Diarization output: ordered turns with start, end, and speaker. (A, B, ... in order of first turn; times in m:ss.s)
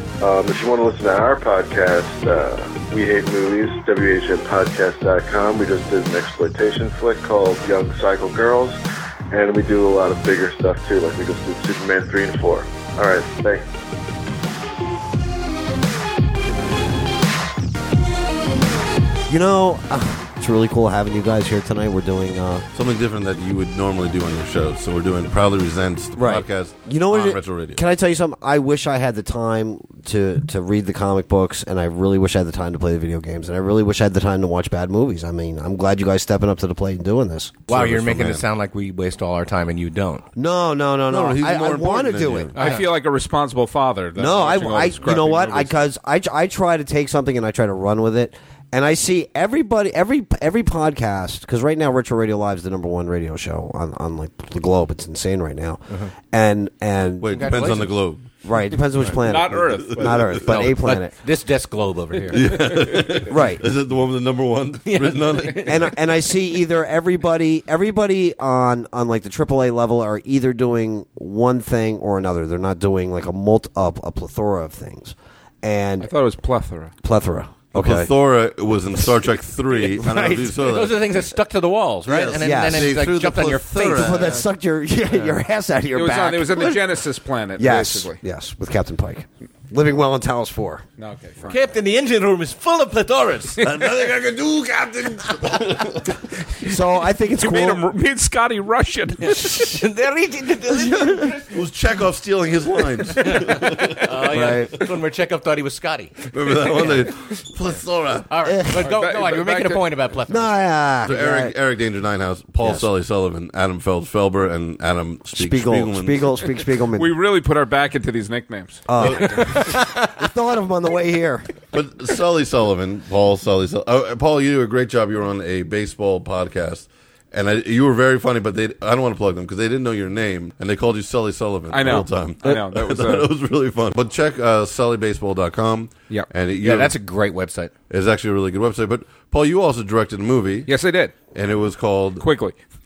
0:00.2-0:08.8 A
0:09.3-0:13.6 A
0:19.3-0:22.6 B
0:22.7-0:27.8 C
0:26.2-0:37.6 B
0:37.7-0:38.4 C
0:37.7-0:40.2 D
0:40.4-0:42.5 B
0:41.1-0:42.5 C
0:42.5-0:42.8 D
0:42.6-0:45.7 E
0:44.2-0:57.5 B
0:57.2-0:58.2 C
0:57.3-0:58.0 D
0:58.4-1:01.1 B
0:59.1-1:00.4 E
1:00.0-1:00.7 C
1:00.5-1:03.0 D
1:02.3-1:05.9 C
1:03.3-1:03.6 B
1:04.8-1:06.0 D
1:05.6-1:16.1 B
1:16.0-1:16.9 E
1:17.0-1:18.1 B
1:17.7-1:21.0 C
1:18.9-1:20.7 B
1:20.6-1:24.3 D
1:22.1-1:24.4 C
1:22.4-1:23.0 B
1:23.8-1:26.8 B
1:25.9-1:28.2 E
1:27.6-1:30.8 B
1:31.0-1:31.6 E
1:31.4-1:33.9 D
1:33.6-1:36.2 C
1:35.2-1:35.6 D
1:36.6-1:37.8 B
1:37.4-1:39.8 E
1:39.5-1:41.5 D
1:40.8-1:41.4 B
1:41.5-1:44.8 C
1:43.2-1:47.1 D
1:44.2-1:44.8 B
1:46.3-1:48.3 C
1:48.3-1:50.5 D
1:48.4-1:48.9 B
1:48.8-1:49.8 E
1:50.3-1:51.5 B
1:51.0-1:56.3 C
1:52.6-1:52.9 B
1:55.4-1:57.1 B
1:57.0-1:59.4 E
1:58.9-2:01.5 B
1:59.0-1:59.6 C
1:59.5-1:59.9 D
2:01.7-2:16.9 C
2:11.7-2:13.3 E
2:16.6-2:17.7 D
2:17.9-2:20.7 C
2:20.7-2:21.1 E
2:21.3-2:22.2 C
2:22.2-2:22.6 E